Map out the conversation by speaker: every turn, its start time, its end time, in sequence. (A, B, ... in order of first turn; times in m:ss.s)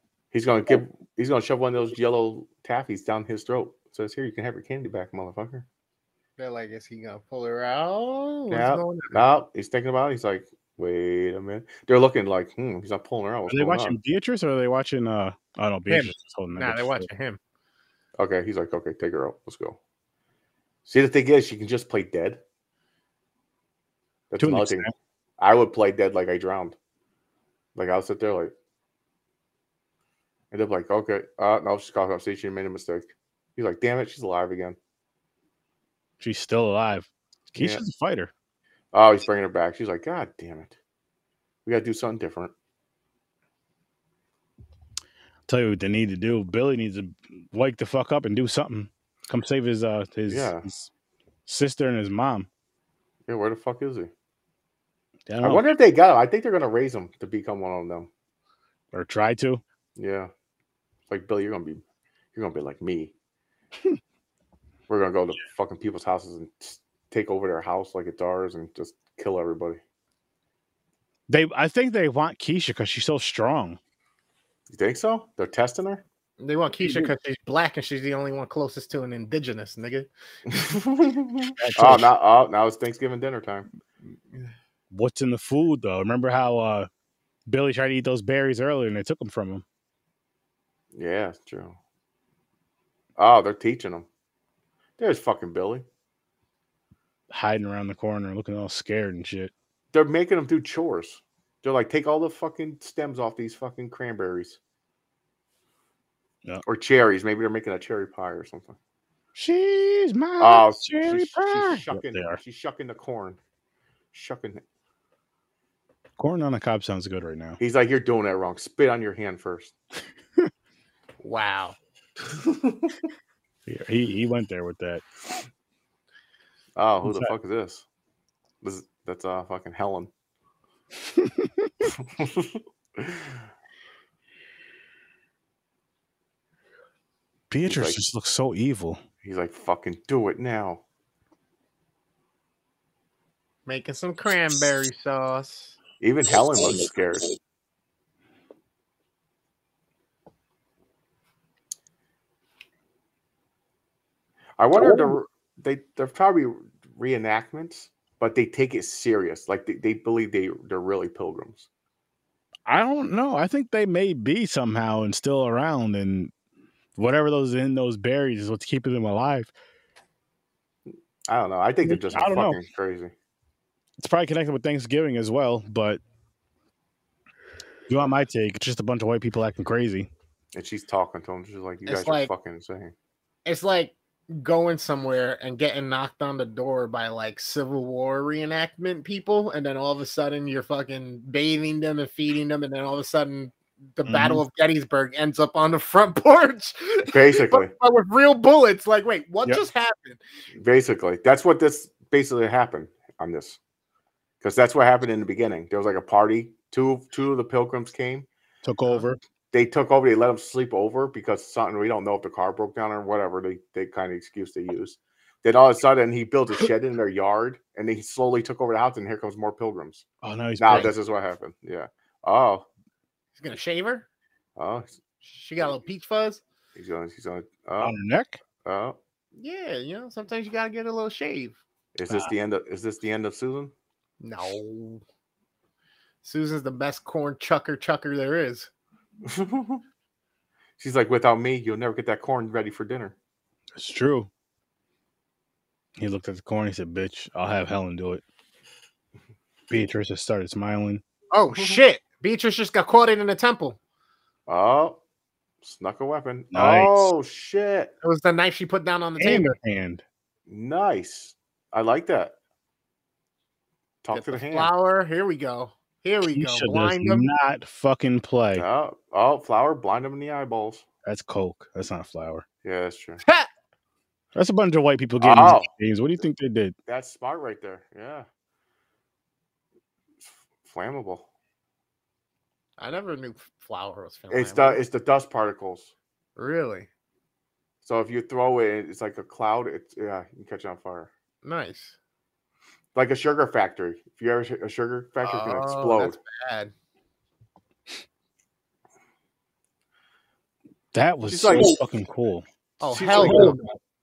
0:00.3-0:05.6 A
0:06.4-0:09.2 B
0:08.5-0:14.0 A
0:13.5-0:17.1 C
0:15.9-0:17.4 B
0:18.2-0:19.8 A
0:20.8-0:22.4 A
0:24.3-0:24.9 A
0:24.4-0:24.9 C
0:25.4-0:26.8 A
0:27.7-0:28.5 A
0:30.5-0:34.8 A
0:36.2-0:38.3 C
0:37.6-0:37.8 A
0:38.9-0:40.7 A
0:41.6-0:42.5 A
0:45.5-0:50.9 C
0:50.3-0:50.7 A
0:51.4-0:52.5 C
0:53.3-0:54.1 A
0:55.3-0:55.6 C
0:55.4-0:58.1 A
0:58.9-0:59.6 C
1:00.0-1:00.3 A
1:01.1-1:01.8 A
1:02.3-1:03.1 A
1:04.9-1:09.8 A
1:11.3-1:13.8 C
1:14.7-1:16.0 A
1:16.4-1:20.1 B
1:20.5-1:23.7 A
1:21.6-1:22.1 C
1:24.9-1:26.9 C
1:27.5-1:29.6 C
1:30.9-1:31.8 A
1:33.2-1:34.1 A
1:35.0-1:35.8 A
1:37.3-1:39.5 C
1:39.9-1:44.6 A
1:46.6-1:48.8 A
1:49.3-1:52.4 C
1:50.4-1:53.4 A
1:54.1-1:54.6 A
1:56.2-1:57.6 C
1:57.6-1:59.7 A
2:01.2-2:01.8 B
2:02.3-2:02.9 A
2:03.7-2:05.0 C
2:06.8-2:07.8 A
2:07.0-2:07.3 C
2:08.6-2:10.1 A
2:11.1-2:11.7 C
2:11.8-2:13.4 A
2:17.5-2:19.0 C
2:17.6-2:18.0 A
2:19.2-2:20.8 A
2:23.6-2:25.8 B
2:26.0-2:27.3 A
2:34.6-2:41.7 A
2:42.7-2:46.3 C
2:47.0-2:49.5 C
2:51.3-2:53.1 A
2:51.8-2:52.6 C
2:54.0-2:56.0 C
2:57.9-3:00.1 C
3:00.5-3:02.9 A
3:01.8-3:02.3 B
3:03.4-3:20.2 B
3:14.0-3:14.4 C
3:17.1-3:17.7 A
3:20.5-3:23.6 A
3:24.4-3:28.3 A
3:28.6-3:29.2 C
3:29.5-3:40.0 A
3:40.2-3:40.9 C
3:40.6-3:42.7 A
3:43.4-3:44.1 B
3:44.6-3:45.0 A
3:45.2-3:46.4 B
3:46.7-3:48.0 A
3:47.8-3:48.4 C
3:48.6-3:49.0 A
3:49.4-3:51.6 B
3:51.9-3:53.7 A
3:54.2-3:55.0 B
3:56.2-3:58.7 B
3:59.2-3:59.8 A
4:00.8-4:03.1 A
4:03.8-4:04.3 C
4:06.0-4:08.2 C
4:09.7-4:11.0 C
4:11.3-4:13.8 B
4:11.5-4:11.8 A
4:14.5-4:15.0 A
4:15.6-4:17.9 A
4:16.5-4:17.1 C
4:18.0-4:19.6 B
4:19.2-4:20.0 C
4:20.5-4:22.4 A
4:24.0-4:24.7 A
4:24.1-4:27.3 B
4:26.3-4:28.6 C
4:28.5-4:30.8 A
4:31.0-4:32.4 C
4:32.6-4:33.2 A
4:33.2-4:33.5 B
4:34.3-4:36.7 C
4:35.2-4:35.7 A
4:36.9-4:38.3 A
4:40.2-4:41.3 A
4:42.8-4:44.8 B
4:44.3-4:45.9 A
4:46.4-4:46.9 B
4:47.8-4:51.1 A
4:51.4-4:52.0 B
4:52.9-4:56.2 A
4:55.2-4:56.7 B
5:00.9-5:02.5 C
5:01.3-5:01.8 A
5:02.8-5:03.7 B
5:02.9-5:03.6 A
5:03.2-5:03.5 C